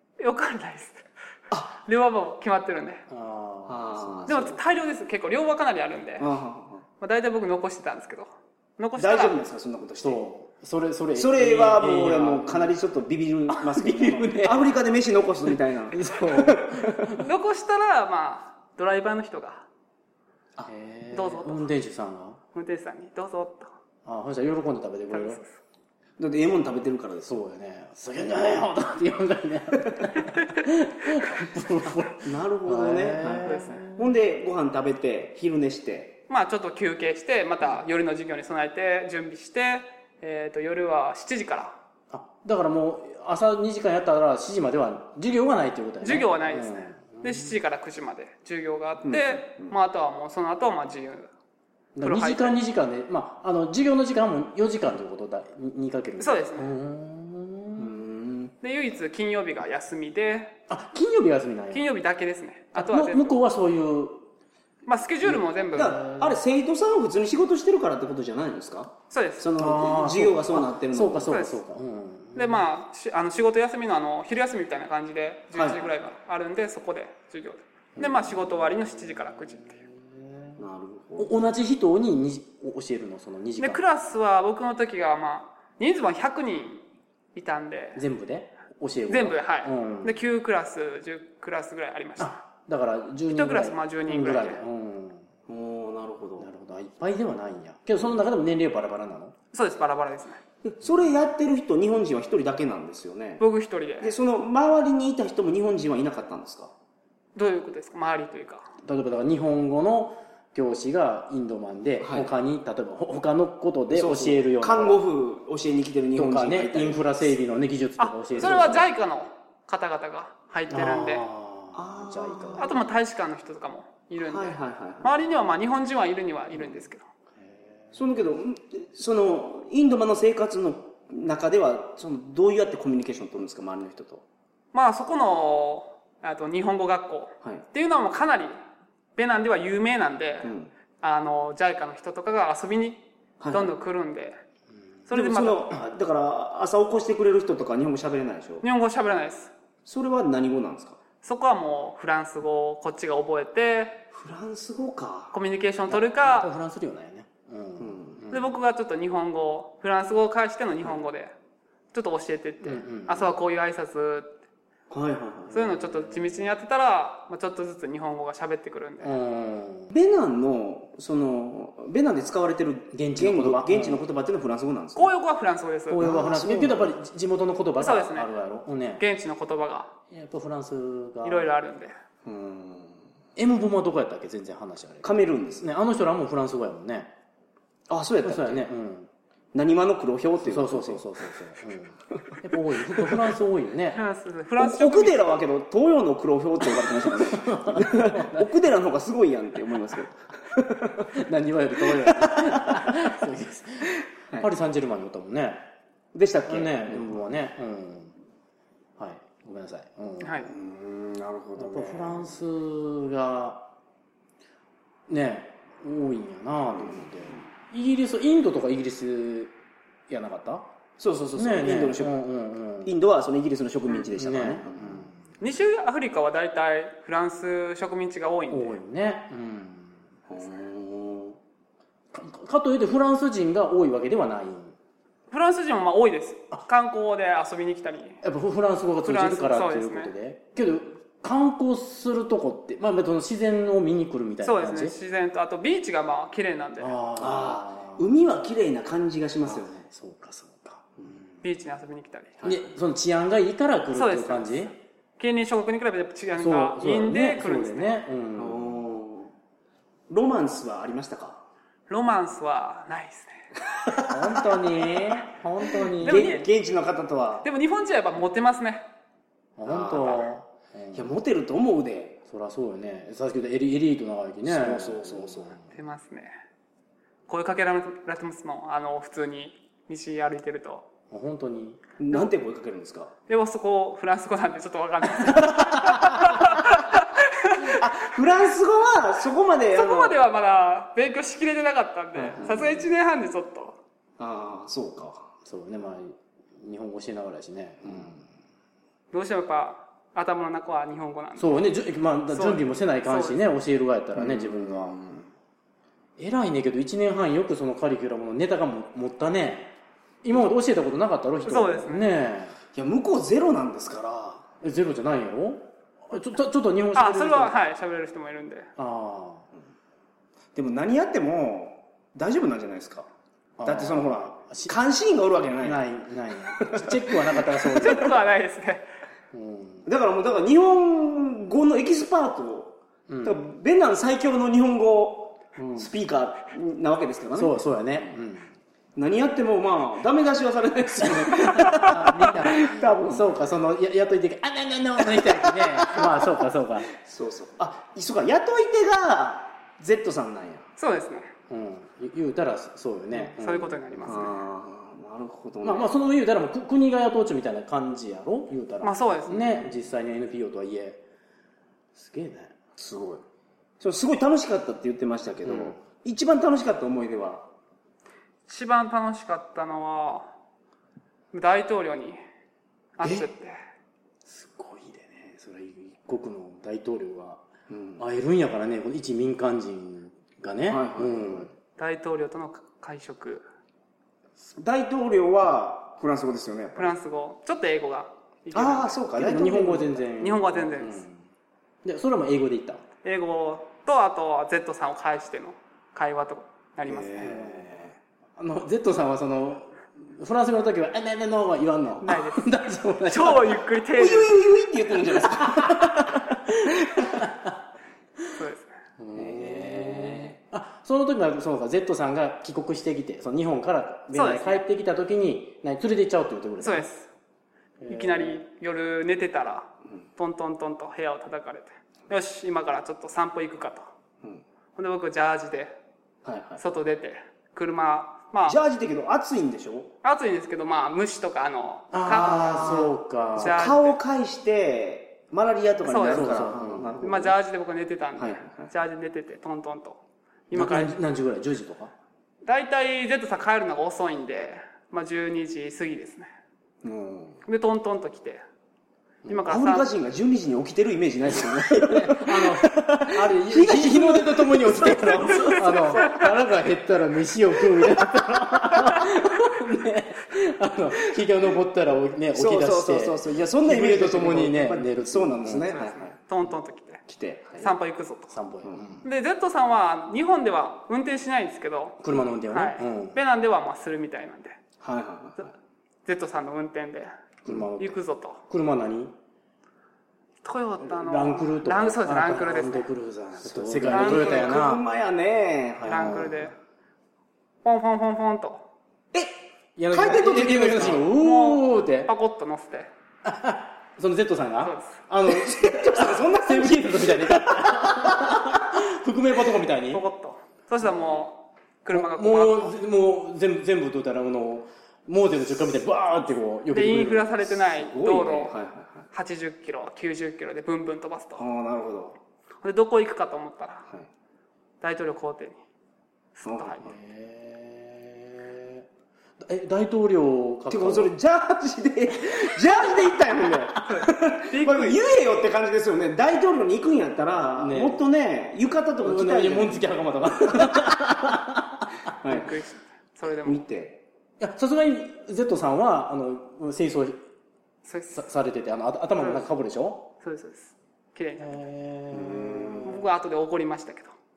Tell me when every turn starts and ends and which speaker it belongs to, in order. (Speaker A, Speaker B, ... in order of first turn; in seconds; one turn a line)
Speaker A: 0.2-1.0
Speaker A: 1.7-3.0
Speaker B: 3.1-4.5
Speaker C: 3.6-4.6
Speaker A: 4.3-6.3
Speaker C: 6.2-6.8
Speaker A: 7.0-9.4
Speaker C: 8.9-10.2
Speaker B: 10.0-12.7
Speaker C: 11.1-17.0
Speaker B: 13.6-14.7
Speaker B: 15.5-17.2
Speaker A: 17.2-19.6
Speaker B: 20.7-22.4
Speaker A: 21.1-21.7
Speaker A: 22.5-23.7
Speaker B: 24.0-25.4
Speaker A: 25.1-25.5
Speaker C: 26.2-27.4
Speaker B: 27.2-34.1
Speaker C: 32.2-36.2
Speaker A: 33.4-33.9
Speaker A: 36.3-41.8
Speaker B: 42.1-47.5
Speaker A: 46.0-51.3
Speaker C: 49.0-49.7
Speaker B: 52.0-57.9
Speaker A: 52.0-52.6
Speaker A: 56.2-56.7
Speaker C: 57.8-58.5
Speaker A: 58.6-60.5
Speaker B: 60.7-61.9
Speaker A: 61.7-63.4
Speaker B: 62.7-64.2
Speaker A: 64.8-66.0
Speaker B: 65.2-66.4
Speaker C: 65.7-71.3
Speaker A: 69.1-69.5
Speaker B: 69.6-72.7
Speaker A: 71.3-71.6
Speaker A: 72.3-79.8
Speaker C: 75.5-75.9
Speaker B: 78.0-80.6
Speaker C: 80.6-81.3
Speaker B: 81.2-83.8
Speaker A: 83.6-88.0
Speaker B: 88.0-90.2
Speaker A: 89.1-92.4
Speaker B: 92.2-95.2
Speaker A: 93.3-94.6
Speaker C: 95.5-96.5
Speaker B: 96.4-99.3
Speaker A: 99.5-100.4
Speaker C: 100.6-103.4
Speaker A: 103.4-104.1
Speaker C: 104.0-106.7
Speaker A: 107.3-108.7
Speaker B: 108.8-115.0
Speaker C: 112.0-112.3
Speaker C: 113.9-117.2
Speaker B: 116.2-118.9
Speaker A: 118.0-121.2
Speaker B: 120.7-122.8
Speaker C: 121.7-122.7
Speaker A: 122.6-127.0
Speaker C: 124.2-125.1
Speaker B: 127.4-127.9
Speaker C: 127.9-134.2
Speaker A: 134.7-138.6
Speaker A: 139.2-144.4
Speaker C: 140.4-140.7
Speaker C: 143.4-143.7
Speaker A: 145.1-145.7
Speaker C: 145.1-148.6
Speaker A: 148.6-149.5
Speaker C: 149.8-151.0
Speaker A: 151.2-154.0
Speaker C: 154.1-155.3
Speaker A: 155.3-156.5
Speaker B: 155.9-158.5
Speaker C: 157.8-158.2
Speaker A: 158.3-161.3
Speaker A: 161.9-164.3
Speaker B: 162.6-163.3
Speaker C: 164.9-165.8
Speaker A: 165.5-169.2
Speaker B: 165.7-166.5
Speaker B: 169.0-169.9
Speaker C: 169.9-175.1
Speaker B: 172.9-174.0
Speaker A: 174.9-176.0
Speaker B: 175.9-179.0
Speaker C: 176.0-176.9
Speaker A: 177.8-178.3
Speaker A: 179.0-179.9
Speaker B: 180.1-181.5
Speaker A: 181.2-181.9
Speaker C: 182.2-183.0
Speaker B: 183.3-187.1
Speaker C: 185.0-185.7
Speaker C: 187.9-188.7
Speaker B: 188.2-189.1
Speaker C: 189.5-191.1
Speaker B: 190.4-194.0
Speaker C: 192.9-193.1
Speaker A: 193.9-195.3
Speaker C: 194.6-201.1
Speaker B: 197.0-198.5
Speaker B: 201.1-205.6
Speaker C: 201.9-202.9
Speaker C: 206.1-207.2
Speaker B: 206.5-208.1
Speaker B: 209.0-210.5
Speaker A: 210.2-210.5
Speaker C: 210.5-212.2
Speaker B: 211.6-213.7
Speaker B: 215.1-219.5
Speaker C: 216.8-217.4
Speaker B: 220.1-220.7
Speaker C: 221.0-222.1
Speaker B: 221.3-222.9
Speaker C: 222.8-225.1
Speaker B: 224.0-225.2
Speaker A: 225.4-228.8
Speaker B: 228.5-230.0
Speaker C: 230.3-231.4
Speaker B: 232.1-234.7
Speaker A: 235.3-238.2
Speaker B: 238.2-244.9
Speaker A: 239.0-240.1
Speaker A: 244.4-246.9
Speaker B: 246.8-248.1
Speaker C: 247.2-249.8
Speaker B: 249.4-251.3
Speaker A: 251.4-252.3
Speaker B: 252.4-254.7
Speaker A: 253.9-258.0
Speaker B: 256.4-258.8
Speaker C: 258.4-259.3
Speaker C: 260.1-261.4
Speaker A: 261.9-263.5
Speaker B: 264.1-266.4
Speaker C: 266.0-267.4
Speaker A: 266.0-266.5
Speaker A: 267.4-268.9
Speaker B: 269.6-271.1
Speaker C: 269.6-270.2
Speaker C: 270.9-272.2
Speaker B: 272.3-275.7
Speaker C: 274.4-275.6
Speaker A: 275.7-276.3
Speaker A: 277.3-280.8
Speaker B: 281.1-281.8
Speaker C: 282.0-283.1
Speaker A: 283.3-287.8
Speaker B: 285.9-286.4
Speaker C: 287.6-290.2
Speaker A: 289.7-293.8
Speaker C: 292.1-292.8
Speaker B: 292.4-292.7
Speaker C: 294.2-295.3
Speaker B: 295.4-298.2
Speaker C: 297.8-298.1
Speaker A: 299.1-301.6
Speaker B: 301.4-304.9
Speaker A: 302.3-303.4
Speaker C: 304.1-305.3
Speaker B: 306.2-312.6
Speaker A: 311.4-312.1
Speaker C: 312.7-314.5
Speaker B: 314.6-317.5
Speaker A: 316.9-318.7
Speaker B: 318.8-319.4
Speaker C: 320.5-323.1
Speaker B: 323.6-324.7
Speaker C: 323.6-325.8
Speaker B: 325.6-328.2
Speaker C: 326.5-328.0
Speaker A: 327.7-328.8
Speaker B: 329.3-329.9
Speaker C: 329.9-338.1
Speaker B: 333.1-333.4
Speaker B: 337.3-338.5
Speaker C: 338.9-343.2
Speaker B: 341.5-346.9
Speaker C: 345.2-346.2
Speaker C: 346.9-350.7
Speaker A: 350.8-351.3
Speaker B: 351.5-354.3
Speaker A: 353.1-354.4
Speaker C: 354.1-355.9
Speaker B: 355.6-361.0
Speaker A: 358.8-359.6
Speaker B: 361.9-362.5
Speaker C: 362.8-363.2
Speaker C: 363.8-367.5
Speaker B: 365.4-365.8
Speaker A: 368.5-370.3
Speaker A: 371.3-372.2
Speaker A: 373.0-373.6
Speaker B: 374.2-377.4
Speaker C: 377.7-378.0
Speaker B: 378.0-381.5
Speaker C: 380.7-381.5
Speaker A: 381.8-383.4
Speaker C: 384.6-386.9
Speaker A: 386.8-389.0
Speaker C: 388.5-390.0
Speaker B: 389.1-391.2
Speaker A: 390.2-391.0
Speaker B: 391.8-392.8
Speaker A: 393.0-397.3
Speaker C: 396.8-397.9
Speaker B: 397.2-397.7
Speaker B: 398.4-403.6
Speaker A: 402.0-404.4
Speaker C: 403.9-407.2
Speaker B: 405.4-407.6
Speaker A: 408.4-408.7
Speaker B: 409.0-416.9
Speaker C: 409.1-410.4
Speaker A: 414.1-414.6
Speaker A: 416.6-417.1
Speaker B: 417.8-418.4
Speaker A: 417.9-423.9
Speaker A: 424.8-425.7
Speaker C: 426.2-426.6
Speaker A: 426.6-428.6
Speaker C: 428.4-429.9
Speaker A: 430.0-433.9
Speaker B: 431.9-433.7
Speaker C: 432.4-437.4
Speaker A: 435.8-440.0
Speaker B: 436.1-437.0
Speaker C: 438.2-438.7
Speaker A: 440.5-440.9
Speaker B: 440.5-441.9
Speaker A: 442.4-446.3
Speaker C: 446.8-447.4
Speaker A: 447.4-448.4
Speaker A: 449.3-449.9
Speaker C: 449.4-456.2
Speaker B: 451.6-465.7
Speaker C: 462.3-466.1
Speaker A: 465.6-467.0
Speaker C: 467.1-467.7
Speaker A: 467.6-468.4
Speaker B: 468.3-469.1
Speaker A: 469.0-474.6
Speaker B: 472.0-473.2
Speaker C: 474.8-475.5
Speaker A: 476.1-477.1
Speaker B: 477.4-479.1
Speaker A: 477.8-478.4
Speaker A: 480.4-482.9
Speaker B: 480.8-484.8
Speaker C: 483.4-486.2
Speaker A: 483.9-484.6
Speaker B: 485.8-486.5
Speaker A: 485.9-486.5
Speaker A: 487.6-488.6
Speaker B: 489.8-492.1
Speaker C: 489.9-491.1
Speaker A: 491.2-492.9
Speaker B: 493.2-500.0
Speaker A: 494.6-495.0
Speaker C: 495.2-498.6
Speaker A: 499.9-502.7
Speaker B: 501.9-507.4
Speaker A: 506.7-508.5
Speaker C: 507.5-509.1
Speaker A: 509.1-511.4
Speaker C: 511.4-512.2
Speaker A: 512.6-513.9
Speaker A: 514.8-515.6
Speaker A: 516.3-516.8
Speaker C: 516.4-517.0
Speaker B: 516.8-518.9
Speaker B: 519.4-521.1
Speaker C: 520.7-529.9
Speaker A: 523.9-525.0
Speaker B: 527.6-528.0
Speaker B: 529.0-531.9
Speaker C: 530.5-530.8
Speaker C: 532.2-532.5
Speaker A: 532.2-533.6
Speaker C: 533.2-534.0
Speaker B: 534.4-537.2
Speaker A: 537.8-538.2
Speaker B: 538.1-540.1
Speaker A: 539.2-539.5
Speaker A: 540.2-541.6
Speaker B: 541.4-543.1
Speaker C: 542.1-542.9
Speaker A: 542.8-544.1